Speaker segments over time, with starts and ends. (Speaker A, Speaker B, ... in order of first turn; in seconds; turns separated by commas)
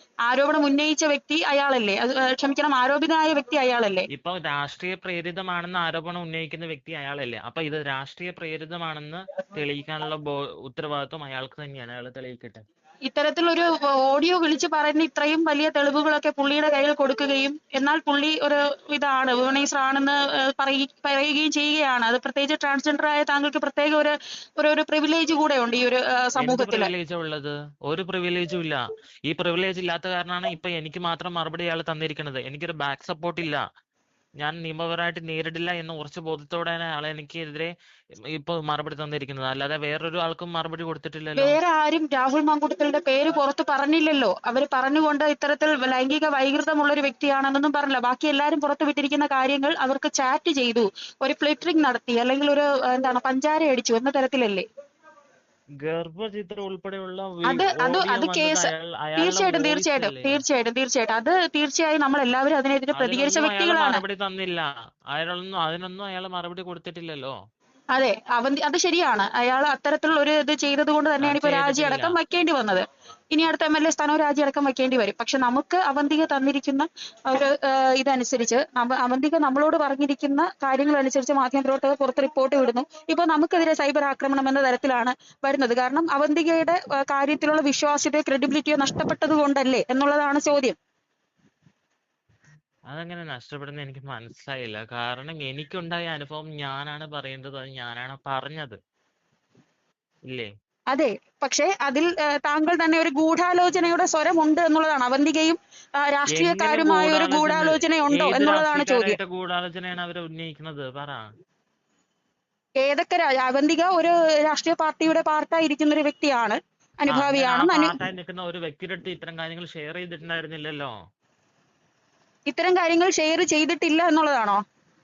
Speaker A: 0.3-4.1, Speaker B: 4.1-12.6, Speaker A: 13.1-26.9, Speaker B: 26.4-33.6, Speaker B: 34.4-37.7, Speaker B: 38.3-41.6, Speaker A: 41.4-54.6, Speaker B: 55.8-60.4, Speaker A: 57.4-64.0, Speaker B: 62.9-67.3, Speaker A: 67.9-90.8, Speaker B: 71.2-72.2, Speaker B: 92.9-98.8, Speaker A: 100.9-109.2, Speaker B: 106.3-111.3, Speaker A: 112.8-118.0, Speaker B: 117.1-120.9, Speaker A: 122.5-124.6